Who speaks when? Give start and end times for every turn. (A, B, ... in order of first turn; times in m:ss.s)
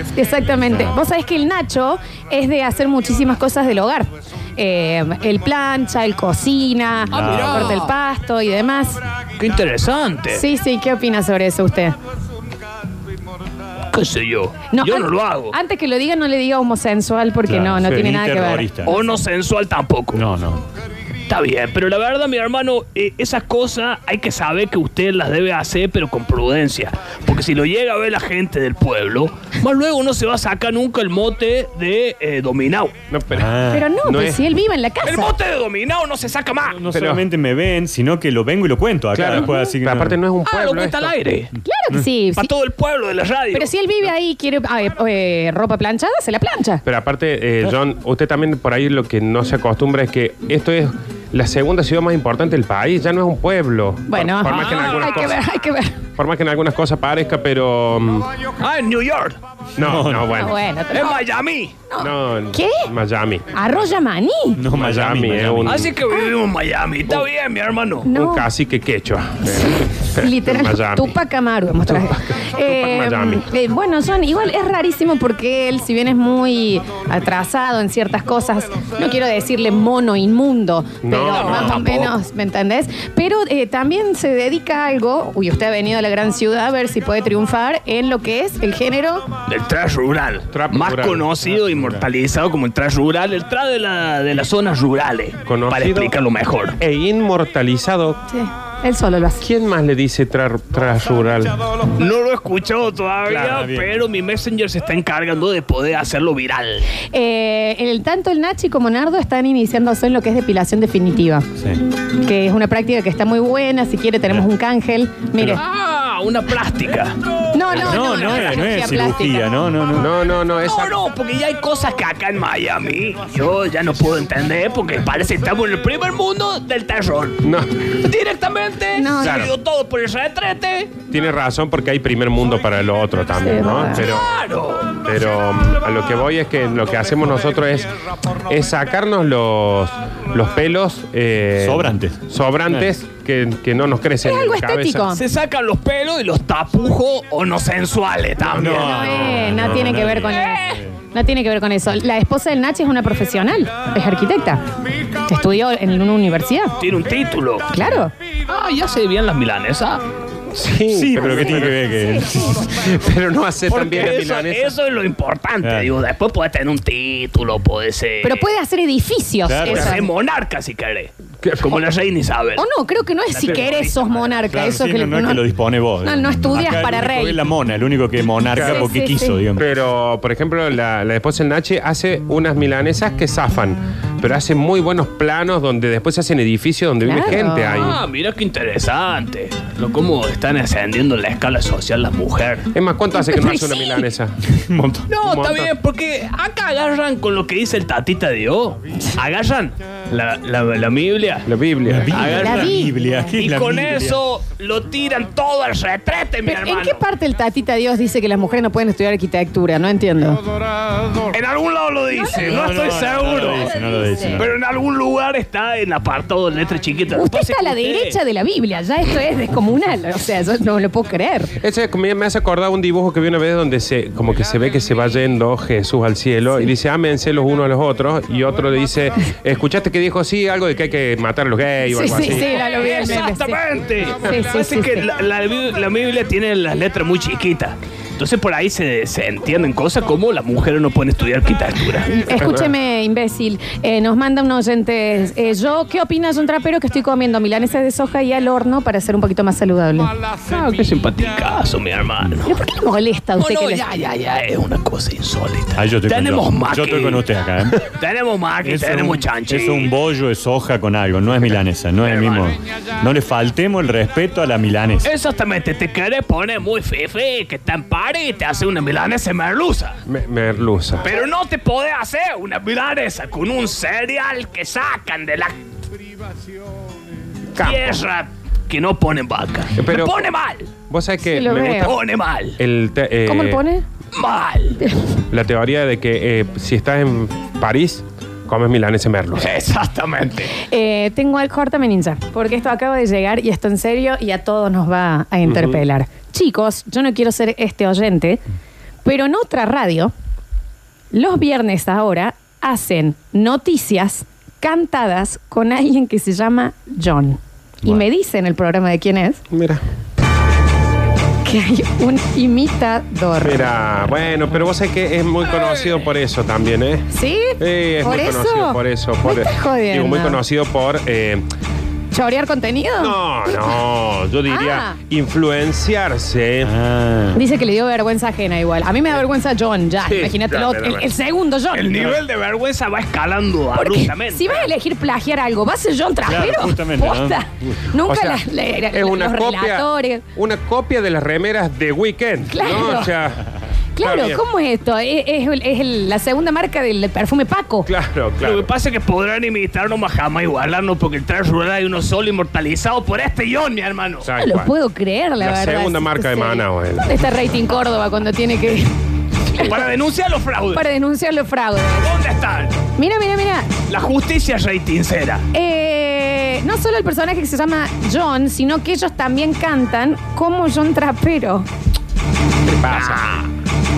0:00.2-0:09.0 A
0:00.7-0:01.0 B
0:07.1-0:07.9 C
0:07.2-0:07.8 B
0:09.4-0:10.4 C
0:10.3-0:12.0 A
0:13.9-0:15.6 C
0:14.7-0:18.7 A
0:17.5-0:19.0 B
0:17.8-0:18.1 D
0:18.8-0:20.2 C
0:20.1-0:20.7 B
0:21.3-0:32.9 C
0:33.1-0:34.4 D
0:33.3-0:33.9 B
0:33.7-0:35.3 A
0:35.0-0:36.8 C
0:36.7-0:40.2 B
0:36.9-0:37.2 D
0:39.1-0:41.1 D
0:39.4-0:39.7 A
0:40.4-0:41.5 C
0:41.6-0:42.5 A
0:42.3-0:43.7 C
0:43.5-0:46.8 A
0:46.8-0:55.4 D
0:54.1-0:56.0 A
0:54.5-0:55.4 C
0:56.2-0:58.3 D
0:58.6-0:59.4 C
0:59.8-1:00.6 D
0:59.8-1:00.4 B
1:00.3-1:01.3 A
1:00.9-1:01.8 C
1:01.9-1:02.9 A
1:02.0-1:03.7 D
1:03.5-1:04.6 A
1:04.6-1:05.9 B
1:04.7-1:05.9 D
1:05.6-1:08.1 C
1:08.1-1:08.5 A
1:08.1-1:11.2 D
1:09.4-1:29.3 A
1:11.8-1:13.5 D
1:21.0-1:21.8 D
1:21.3-1:22.2 C
1:29.5-1:36.8 C
1:30.5-1:31.3 D
1:35.5-1:36.1 D
1:36.8-1:38.2 D
1:38.3-1:39.5 A
1:39.4-1:41.6 D
1:41.9-1:46.9 C
1:43.4-1:44.0 B
1:47.1-1:51.5 A
1:52.2-1:55.6 A
1:55.6-1:57.2 C
1:57.5-1:59.5 A
1:57.7-2:00.1 B
2:00.0-2:00.9 D
2:00.6-2:07.5 C
2:07.4-2:07.8 D
2:08.0-2:11.0 C
2:09.0-2:09.4 A
2:09.2-2:09.5 D
2:11.1-2:14.3 D
2:13.4-2:14.1 A
2:14.0-2:15.1 C
2:15.0-2:17.9 D
2:18.5-2:25.1 D
2:21.6-2:22.9 B
2:24.2-2:25.2 A
2:25.1-2:29.5 C
2:28.4-2:31.0 B
2:28.7-2:34.6 A
2:30.3-2:30.8 C
2:35.2-2:36.7 A
2:36.8-2:37.7 C
2:37.7-2:38.1 A
2:37.8-2:38.1 B
2:38.5-2:40.0 C
2:40.5-2:41.8 D
2:40.9-2:42.7 B
2:41.6-2:42.3 A
2:42.6-2:44.7 D
2:43.7-2:48.5 C
2:45.6-2:45.9 B
2:48.2-2:50.1 A
2:49.5-2:49.9 B
2:49.7-2:50.0 D
2:49.7-2:52.7 C
2:51.4-2:51.8 D
2:52.6-2:55.4 A
2:53.3-2:54.4 C
2:54.5-2:59.7 B
2:56.0-2:57.4 A
2:58.6-2:58.9 D
2:58.6-2:59.4 A
2:59.6-3:08.0 D
3:07.0-3:08.0 A
3:07.7-3:12.7 C
3:12.7-3:14.3 D
3:13.1-3:14.1 A
3:14.7-3:15.1 B
3:15.1-3:21.5 C
3:15.2-3:15.7 D
3:21.5-3:22.4 D
3:21.9-3:24.2 B
3:22.1-3:27.0 C
3:22.2-3:22.9 A
3:26.5-3:30.4 A
3:31.3-3:33.7 C
3:32.1-3:34.4 A
3:32.5-3:34.5 B
3:34.4-3:38.2 C
3:37.1-3:41.5 A
3:41.6-3:52.7 D
3:51.9-3:53.6 A
3:52.5-4:02.2 C
3:54.2-3:55.1 A
4:02.1-4:10.1 A
4:02.3-4:02.7 D
4:10.5-4:12.6 C
4:12.5-4:13.9 A
4:13.4-4:17.3 C
4:15.8-4:17.8 B
4:17.9-4:20.0 C
4:18.6-4:25.1 B
4:22.0-4:22.6 C
4:25.0-4:30.0 C
4:30.1-4:31.1 D
4:31.0-4:35.6 C
4:37.6-4:38.0 D
4:37.6-4:40.7 C
4:39.8-4:40.2 D
4:40.9-4:42.0 D
4:41.3-4:41.9 A
4:41.8-4:42.6 C
4:42.6-4:43.6 D
4:43.3-4:43.8 A
4:44.2-4:44.8 C
4:45.3-4:49.5 D
4:49.4-4:50.5 C
4:50.5-4:58.4 A
4:55.5-4:55.8 D
4:59.0-5:00.1 A
5:01.1-5:09.4 A
5:09.5-5:09.8 D
5:11.4-5:13.7 A
5:13.4-5:17.1 D
5:17.1-5:20.4 A
5:17.6-5:21.4 D
5:22.1-5:23.8 A
5:23.0-5:26.7 D
5:24.5-5:25.0 A
5:26.6-5:27.4 B
5:27.3-5:32.2 A
5:30.0-5:31.1 D
5:31.7-5:34.7 C
5:33.7-5:40.2 A
5:36.2-5:37.4 B
5:37.6-5:43.5 D
5:42.5-5:43.1 A
5:44.0-5:47.9 A
5:44.0-5:44.4 D
5:47.9-5:48.7 D
5:48.4-5:54.3 C
5:54.2-5:54.7 D
5:54.4-5:58.9 A
5:55.4-5:57.2 D
5:59.5-5:59.8 A
5:59.6-6:00.8 C
6:00.7-6:02.1 A
6:02.0-6:02.8 C
6:03.0-6:03.7 A
6:03.9-6:05.4 C
6:05.5-6:11.7 A
6:12.6-6:13.2 D
6:12.9-6:13.5 C